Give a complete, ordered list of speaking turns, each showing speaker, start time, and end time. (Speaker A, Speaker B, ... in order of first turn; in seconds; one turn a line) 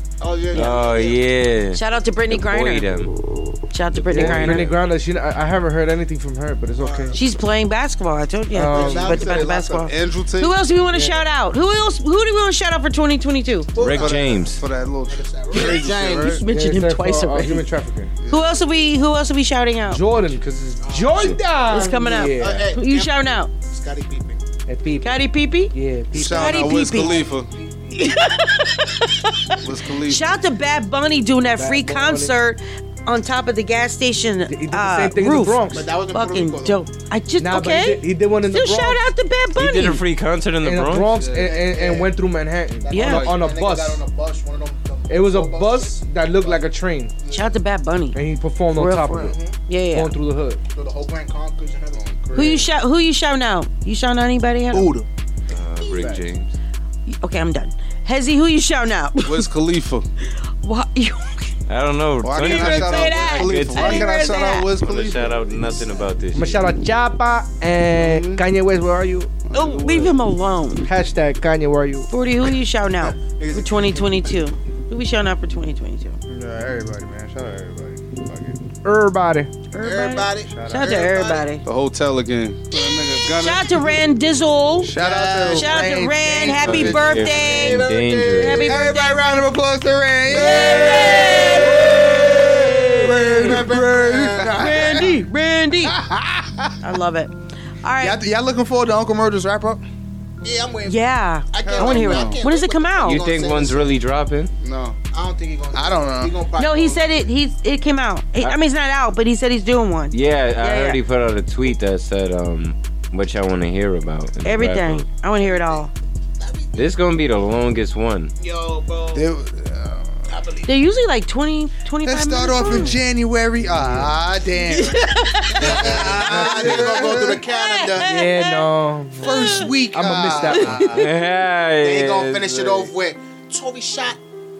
Speaker A: 0.2-1.2
Speaker B: 0.5-3.1
Speaker C: 1.7-2.9
Speaker C: 3.7-4.7
Speaker B: 3.9-4.7
Speaker D: 4.1-7.2
Speaker A: 6.8-7.2
Speaker C: 7.1-13.7
Speaker D: 8.5-9.3
Speaker A: 8.6-9.8
Speaker E: 9.7-10.6
Speaker D: 10.9-11.2
Speaker A: 13.7-14.5
Speaker B: 13.8-14.6
Speaker E: 13.9-16.4
Speaker A: 15.0-16.4
Speaker C: 16.3-17.6
Speaker D: 16.4-18.1
Speaker E: 18.2-18.6
Speaker C: 18.3-20.0
Speaker D: 19.9-22.7
Speaker A: 20.8-24.4
Speaker C: 21.7-23.5
Speaker D: 24.7-26.4
Speaker C: 25.0-27.2
Speaker E: 26.1-27.5
Speaker A: 26.4-28.2
Speaker C: 27.9-40.0
Speaker E: 29.6-30.4
Speaker D: 31.6-32.3
Speaker D: 34.5-35.9
Speaker A: 35.7-36.8
Speaker D: 37.4-39.0
Speaker B: 39.6-41.2
Speaker D: 40.6-44.0
Speaker E: 41.1-41.5
Speaker A: 41.3-42.1
Speaker A: 42.8-46.6
Speaker C: 42.9-43.3
Speaker E: 43.0-43.2
Speaker D: 45.1-47.1
Speaker A: 47.2-47.5
Speaker C: 47.3-48.2
Speaker D: 48.1-49.4
Speaker C: 48.7-50.1
Speaker A: 49.1-49.5
Speaker D: 49.9-50.6
Speaker A: 50.7-52.6
Speaker F: 52.3-52.5
Speaker C: 52.3-54.9
Speaker D: 52.3-52.7
Speaker F: 54.7-55.0
Speaker B: 55.5-56.5
Speaker C: 57.1-59.5
Speaker E: 59.2-60.0
Speaker C: 60.6-61.5
Speaker B: 61.7-64.2
Speaker E: 62.2-66.0
Speaker C: 62.4-64.7
Speaker B: 64.8-66.7
Speaker D: 66.3-69.3
Speaker E: 68.0-68.4
Speaker E: 69.4-70.2
Speaker C: 69.5-70.9
Speaker D: 70.8-72.1
Speaker C: 72.1-76.2
Speaker A: 73.3-74.1
Speaker F: 76.3-78.6
Speaker D: 78.8-79.5
Speaker C: 79.7-81.6
Speaker A: 79.8-81.5
Speaker F: 80.5-81.0
Speaker E: 81.6-83.7
Speaker C: 82.7-84.9
Speaker E: 84.9-85.2
Speaker F: 84.9-87.2
Speaker A: 84.9-85.9
Speaker C: 85.5-89.2
Speaker B: 86.6-88.7
Speaker A: 86.8-88.8
Speaker F: 88.7-95.2
Speaker C: 90.3-93.5
Speaker A: 90.3-95.0
Speaker C: 94.5-96.0
Speaker F: 95.8-96.7
Speaker C: 96.8-98.2
Speaker F: 98.0-99.8
Speaker A: 100.4-103.9
Speaker C: 100.8-103.2
Speaker E: 101.7-102.4
Speaker B: 103.0-104.5
Speaker E: 104.6-105.0
Speaker A: 105.1-107.3
Speaker F: 105.7-106.3
Speaker C: 106.6-111.0
Speaker B: 110.1-115.1
Speaker C: 114.4-115.9
Speaker A: 115.3-115.8
Speaker A: 116.4-116.9
Speaker B: 116.7-118.3
Speaker A: 118.4-119.3
Speaker E: 119.5-119.8
Speaker A: 120.3-120.7
Speaker C: 120.6-123.0
Speaker F: 122.0-125.0
Speaker E: 123.8-124.1
Speaker C: 124.9-126.2
Speaker A: 125.5-128.2
Speaker F: 125.6-127.4
Speaker D: 126.2-126.8
Speaker C: 127.5-128.6
Speaker D: 128.0-131.0
Speaker F: 129.2-131.1
Speaker C: 129.2-129.6
Speaker B: 130.9-132.9
Speaker A: 131.8-134.2